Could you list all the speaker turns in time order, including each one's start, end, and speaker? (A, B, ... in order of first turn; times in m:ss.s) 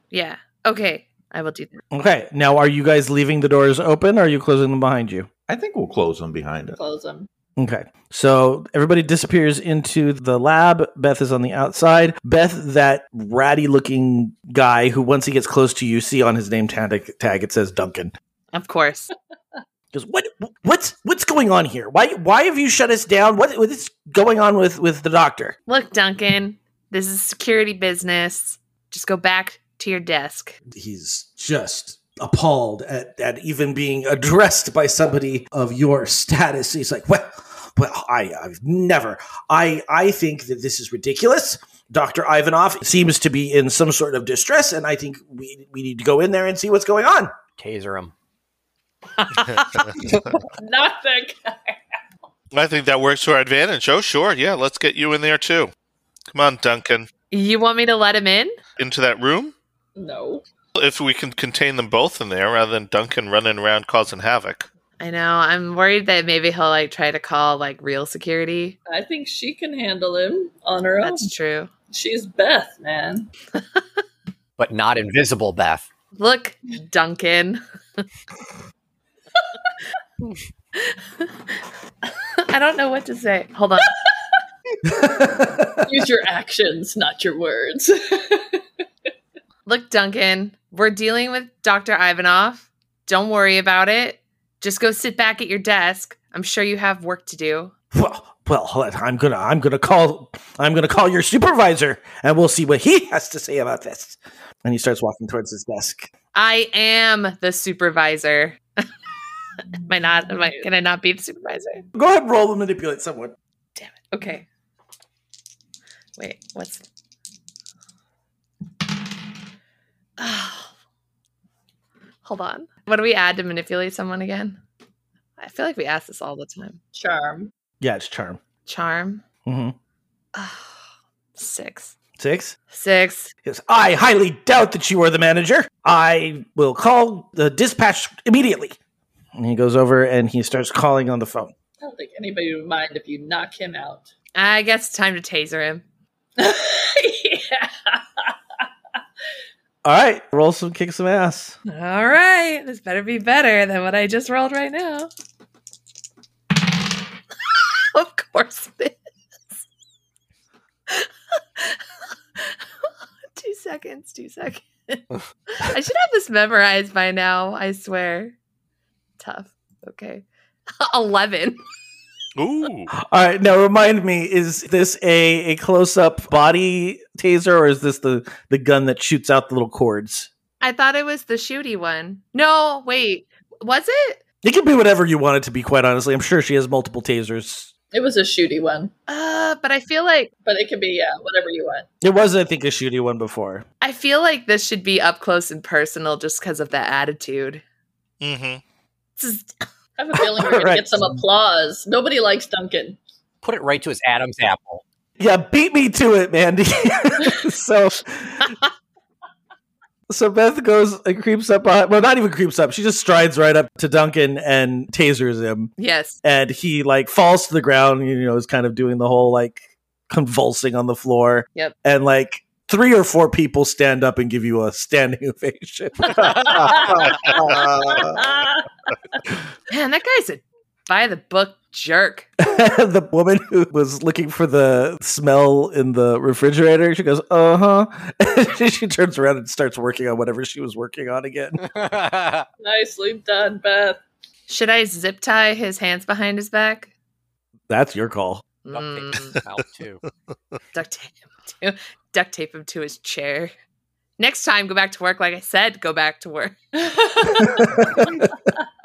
0:00.1-0:01.8 A
0:01.9-0:05.3 B
0:05.5-0:06.8 C
0:06.8-0:07.3 D
0:07.6-0:18.1 B
0:18.5-0:19.1 A
0:19.9-0:25.5 B
0:25.7-0:30.6 A
0:30.7-0:47.3 B
0:47.6-0:48.1 E
0:50.6-0:51.8 D
0:52.5-0:55.7 F
0:56.3-0:57.1 F
0:57.3-0:58.6 A
0:58.8-0:59.5 F
1:00.0-1:00.4 D
1:00.7-1:04.7 F
1:05.0-1:08.8 A
1:08.9-1:11.3 D
1:11.0-1:11.7 A
1:11.9-1:13.3 D
1:14.6-1:15.9 E
1:16.2-1:17.6 A
1:20.8-1:21.6 A
1:22.5-1:23.9 A
1:25.0-1:25.6 B
1:25.8-1:28.6 D
1:29.6-1:37.7 A
1:37.9-1:46.1 B
1:46.3-1:48.6 A
1:49.7-1:51.8 A
1:51.9-1:53.3 B
1:53.8-1:54.4 A
1:56.2-1:56.8 A
2:00.2-2:00.7 A
2:02.2-2:04.6 A
2:05.4-2:06.8 A
2:06.9-2:07.5 D
2:07.8-2:08.4 B
2:08.6-2:09.2 A
2:09.4-2:09.7 B
2:10.3-2:10.7 A
2:11.4-2:11.9 A
2:12.2-2:12.5 B
2:12.7-2:13.3 A
2:13.4-2:18.8 B
2:19.3-2:21.5 B
2:21.8-2:24.1 D
2:24.4-2:25.8 A
2:26.4-2:28.3 D
2:29.8-2:31.6 B
2:31.7-2:35.1 A
2:37.9-2:38.9 A
2:40.9-2:41.8 A
2:42.4-2:42.6 A
2:43.3-2:48.3 A
2:49.2-2:50.2 A
2:50.8-2:51.6 A
2:52.4-2:52.9 F
2:53.0-3:00.3 B
3:00.6-3:04.2 A
3:04.4-3:07.7 B
3:07.9-3:08.9 D
3:09.1-3:10.3 A
3:10.4-3:11.9 D
3:12.0-3:13.6 B
3:13.8-3:17.6 A
3:18.2-3:18.6 F
3:19.2-3:19.6 A
3:20.0-3:23.0 D
3:20.4-3:21.0 B
3:23.4-3:24.8 E
3:25.2-3:28.5 B
3:30.1-3:46.2 B
3:35.8-3:36.2 A
3:46.1-3:48.4 C
3:46.7-3:47.4 D
3:48.1-3:48.6 D
3:49.7-3:52.3 A
3:52.4-4:01.6 B
4:01.6-4:02.5 E
4:02.6-4:04.0 D
4:04.5-4:06.9 A
4:07.7-4:08.4 B
4:08.6-4:09.4 A
4:08.7-4:10.0 E
4:10.7-4:13.5 A
4:14.2-4:16.8 A
4:16.9-4:17.5 D
4:17.4-4:18.2 B